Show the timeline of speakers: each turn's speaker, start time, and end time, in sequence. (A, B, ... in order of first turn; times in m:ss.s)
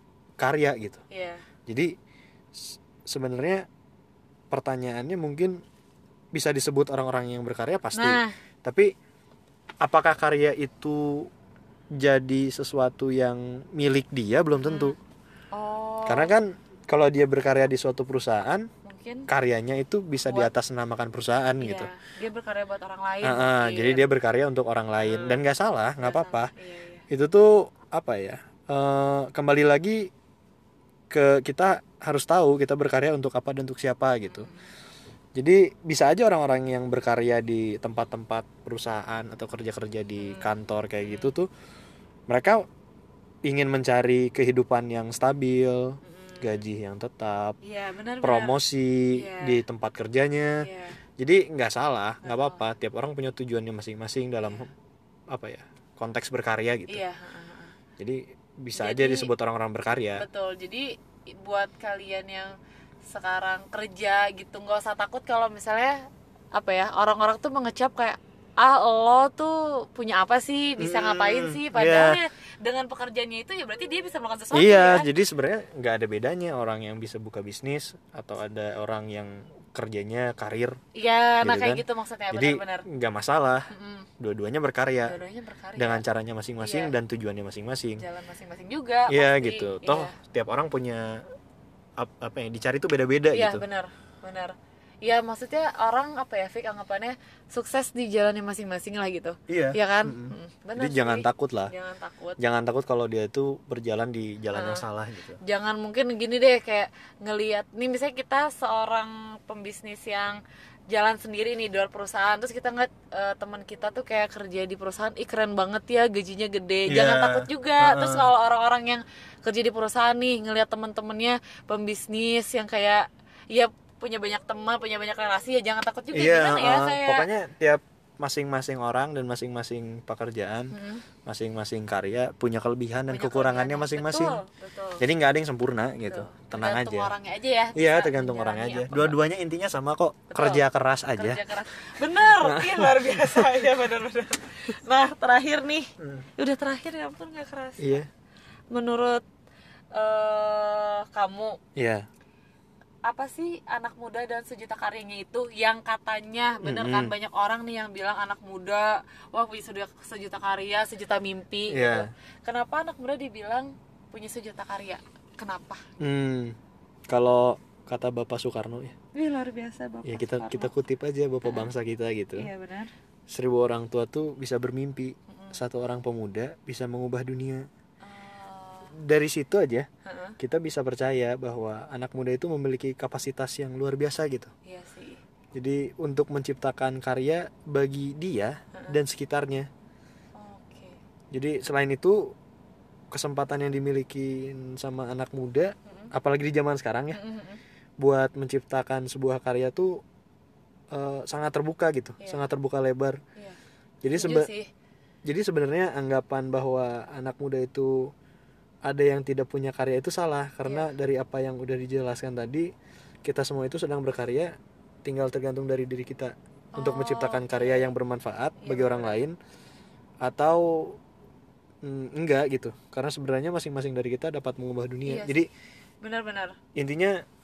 0:00.4-0:01.0 A
0:01.1-0:01.4 B
0:01.7-0:01.9 A
0:02.5-0:03.6 A
0:04.5-0:05.6 A
0:06.3-0:08.9 A
0:07.9-0:08.3 B
0:09.8-0:11.3 A
0:12.0-0:15.0 A
0:14.6-0:15.0 B
0:15.5-0:16.3 B
0:16.1-0:18.7 A
0:18.8-0:19.3 B
0:19.3-0:21.9 A
0:20.2-0:20.5 B
0:21.6-0:24.1 B
0:23.2-0:26.5 A
0:25.0-0:25.4 B
0:26.0-0:27.0 B
0:27.1-0:30.1 A
0:31.1-0:34.5 A
0:34.3-0:34.7 B
0:35.3-0:41.5 A
0:40.2-0:41.4 B
0:42.3-0:42.6 A
0:43.4-0:47.6 A
0:46.0-0:46.6 B
0:47.6-0:48.6 B
0:48.2-0:50.7 A
0:49.1-0:49.6 B
0:50.6-0:51.0 B
0:51.2-0:54.7 A
0:52.2-0:52.6 B
0:54.4-0:54.7 B
0:55.3-0:57.0 A
0:56.9-0:57.7 B
0:58.0-1:00.2 A
0:58.7-0:59.3 B
1:00.2-1:02.5 B
1:03.1-1:06.0 B
1:06.5-1:15.1 B
1:10.8-1:12.2 A
1:14.5-1:20.8 A
1:20.9-1:22.8 B
1:21.4-1:23.6 A
1:23.7-1:24.1 B
1:24.2-1:25.2 A
1:25.0-1:26.0 B
1:25.8-1:28.0 A
1:26.6-1:26.9 B
1:28.0-1:30.1 B
1:29.1-1:31.2 A
1:32.0-1:33.6 A
1:33.3-1:42.4 B
1:39.5-1:41.7 A
1:42.4-1:45.4 A
1:44.5-1:44.8 B
1:45.4-2:07.3 B
1:56.9-1:58.3 A
2:06.1-2:14.4 A
2:10.7-2:11.0 B
2:13.1-2:15.0 B
2:15.0-2:17.1 A
2:16.0-2:19.2 B
2:17.7-2:21.4 A
2:20.3-2:20.6 B
2:21.1-2:28.0 B
2:22.2-2:23.5 A
2:26.0-2:26.3 A
2:27.8-2:28.1 A
2:28.7-2:29.2 B
2:29.9-2:31.6 B
2:31.8-2:32.0 A
2:33.0-2:45.8 B
2:36.6-2:37.1 A
2:41.7-2:42.1 A
2:46.0-2:46.6 A
2:47.1-2:48.9 A
2:49.1-2:50.7 B
2:50.0-2:52.5 A
2:51.4-2:51.7 B
2:52.4-2:52.9 B
2:53.3-2:57.7 A
2:55.3-2:55.6 B
2:58.0-2:58.9 B
2:59.0-2:59.9 A
3:00.0-3:00.4 B
3:00.4-3:04.5 A
3:04.6-3:05.2 B
3:05.5-3:09.7 A
3:10.3-3:11.0 B
3:11.3-3:12.3 A
3:13.1-3:17.2 A
3:15.8-3:16.1 B
3:17.1-3:17.6 B
3:18.0-3:20.0 A
3:20.9-3:23.2 A
3:22.2-3:22.5 B
3:24.0-3:24.5 A
3:24.1-3:24.7 B
3:25.2-3:28.1 A
3:28.8-3:32.7 A
3:30.6-3:30.9 B
3:33.2-3:34.5 A
3:35.0-3:39.4 A
3:36.7-3:37.9 B
3:38.6-3:39.2 B
3:40.2-3:41.0 A
3:41.8-3:45.5 A
3:45.0-3:45.4 B
3:46.0-3:46.6 B
3:46.7-3:47.2 A